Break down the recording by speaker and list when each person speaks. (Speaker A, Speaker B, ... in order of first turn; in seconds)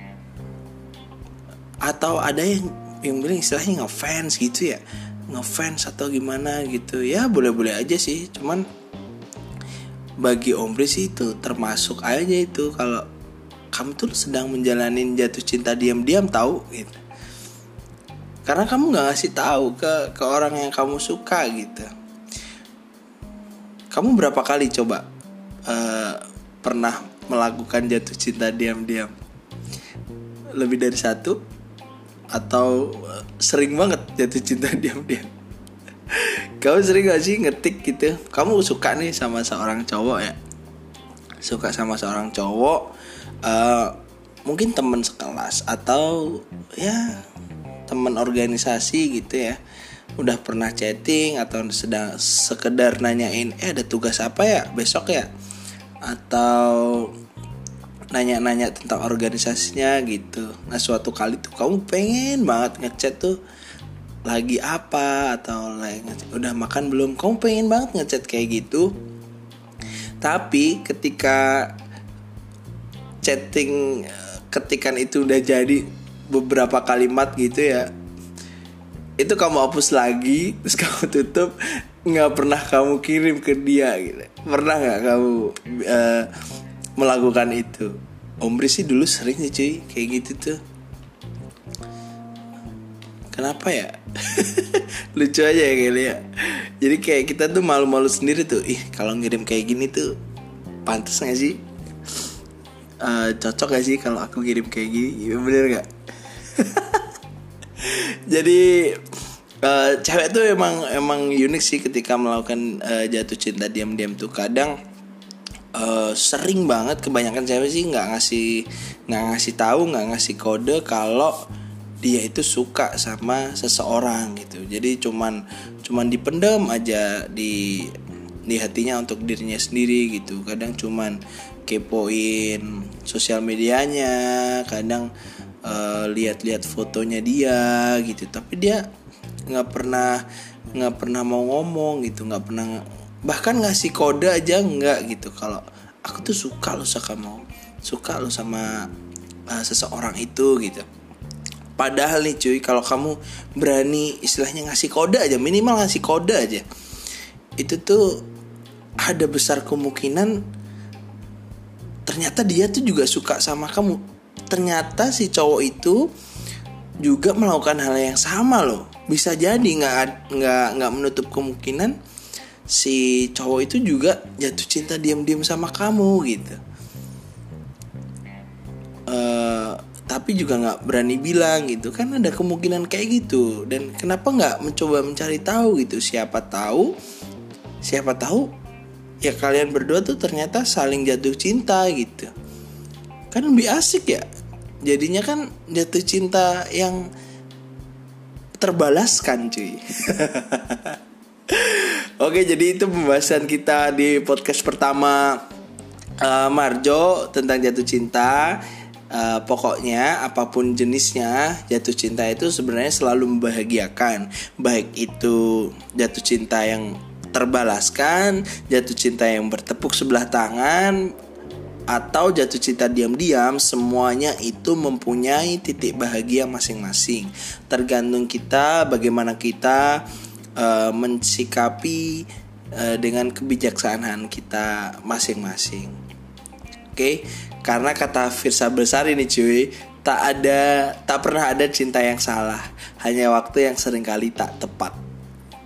Speaker A: 1.9-8.7, 10.2-13.1, 13.7-17.0, 18.5-21.9, 23.9-25.1, 25.7-29.1, 30.6-31.4, 32.3-35.3, 36.1-40.4, 41.4-42.9, 43.4-47.1, 47.9-49.6, 50.2-55.3, 56.1-57.1, 58.1-63.4, 64.3-69.0, 70.2-71.7, 73.2-77.9, 79.2-81.5, 82.1-86.3, 87.0-90.6, 93.3-100.1, 100.8-101.6, 103.0-105.9, 106.4-107.1, 107.8-109.1, 109.6-114.8, 115.7-121.4, 122.0-128.0, 128.5-135.1, 135.6-138.9, 139.5-140.2, 140.8-148.9, 149.5-150.9, 151.8-156.7, 157.6-158.2, 159.0-160.4, 162.1-166.1, 167.0-172.0, 172.7-176.6, 179.1-186.9, 187.8-188.5, 189.2-192.3, 193.3-194.3, 194.8-197.1, 198.6-205.4, 206.2-221.0, 221.9-230.0, 230.6-232.2, 232.8-235.9, 236.9-245.0